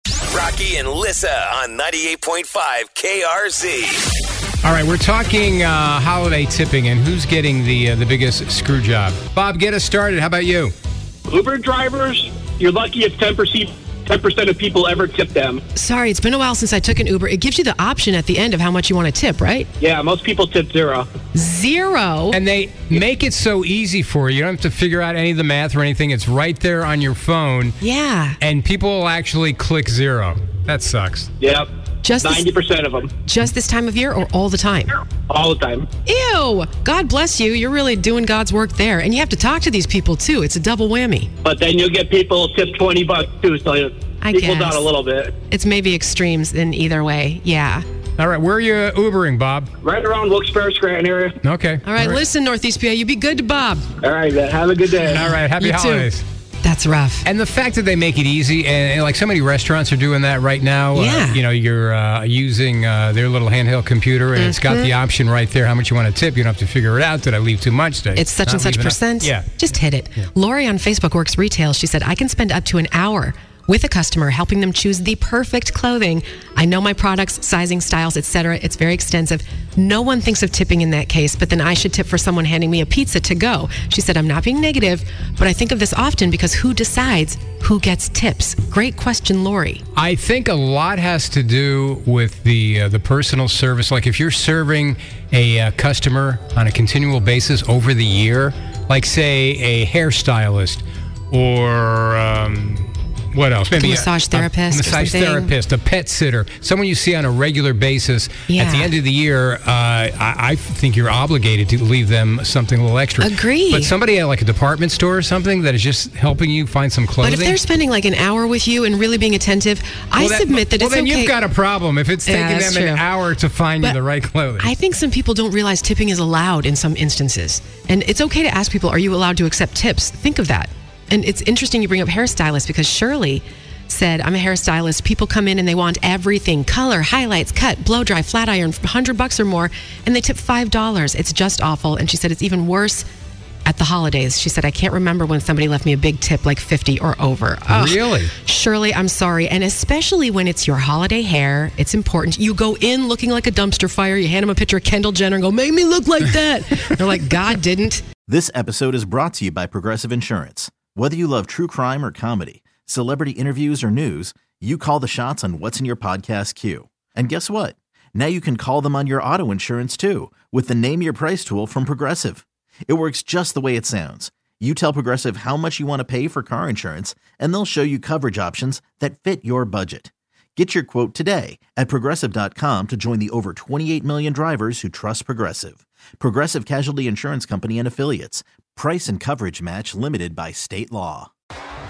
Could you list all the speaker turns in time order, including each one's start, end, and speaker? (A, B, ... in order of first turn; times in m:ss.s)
0:00.3-0:04.0 A
0:04.6-0:10.7 B
0:11.3-0:15.6 C
0:15.7-0:19.7 D
0:19.8-0:21.1 C
0:21.3-0:22.4 D
0:22.3-0:27.8 B
0:27.8-0:28.4 D
0:28.4-0:31.3 B
0:31.4-0:33.1 C
0:32.0-0:32.4 D
0:33.2-0:34.9 D
0:35.1-0:35.9 C
0:36.0-0:41.3 D
0:41.4-0:45.4 C
0:44.2-0:44.9 D
0:45.4-0:47.8 D
0:48.2-0:49.7 B
0:49.8-0:51.4 C
0:51.4-0:52.2 B
0:51.8-0:53.9 D
0:54.0-0:55.4 C
0:54.9-0:56.2 B
0:55.6-0:56.1 D
0:56.6-0:57.2 D
0:57.2-1:09.5 B
1:00.9-1:01.4 D
1:04.4-1:04.9 D
1:08.2-1:29.8 D
1:30.0-1:57.6 B
1:43.7-1:45.5 D
1:48.5-1:48.9 D
1:53.2-1:53.9 D
1:57.2-2:01.4 D
2:00.2-2:04.7 B
2:02.3-2:03.0 D
2:04.6-2:23.0 D
2:23.6-2:38.0 D
2:27.7-2:28.3 B
2:38.3-3:11.3 E